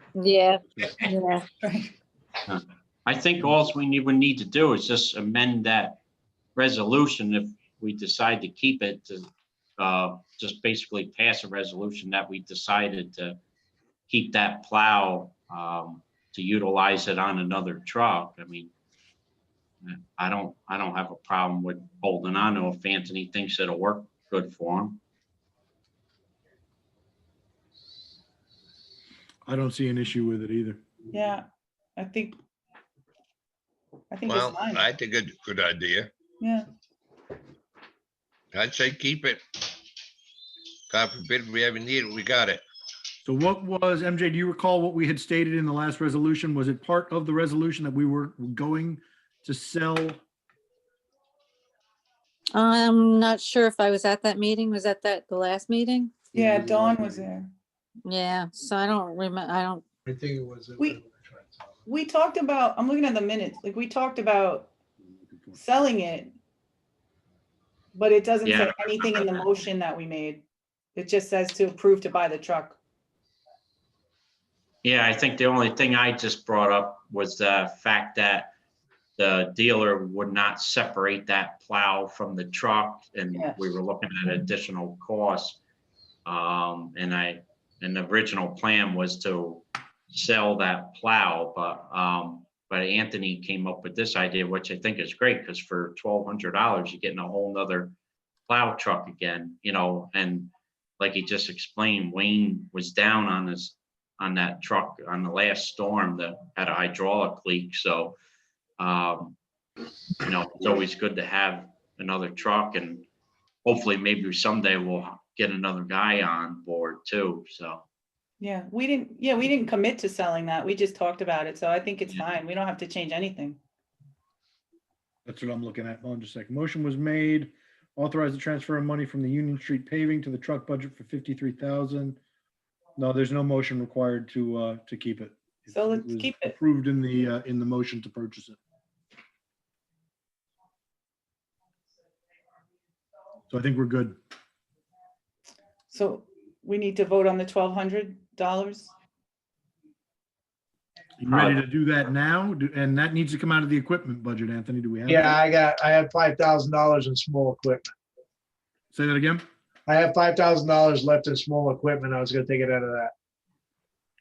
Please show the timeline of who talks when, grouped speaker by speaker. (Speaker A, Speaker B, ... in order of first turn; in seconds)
Speaker A: 0.1-1.4, 52.5-56.2, 58.0-59.8
Speaker B: 1.6-1.9, 31.1-31.4, 32.0-32.4, 34.1-34.9, 36.4-36.6, 56.3-57.5, 61.9-64.7, 65.5-66.3, 67.9-70.4, 70.9-72.8, 118.4-123.6, 135.7-136.5, 145.9-148.9
Speaker C: 2.5-6.0, 6.5-13.4, 14.1-18.7, 19.8-25.0, 68.4-69.5, 74.8-78.5, 79.2-85.6, 86.2-97.9, 98.5-108.2, 108.8-109.4, 110.2-113.1, 113.6-117.8, 151.2-151.6
Speaker D: 29.4-30.8, 43.2-50.2, 56.4-57.1, 65.0-65.6, 125.2-132.2, 133.0-138.6, 143.5-144.2, 151.2-155.3, 158.9-159.4
Speaker E: 34.3-36.1, 38.5-39.4, 40.9-42.6
Speaker F: 60.1-61.8, 155.1-157.9, 159.9-163.1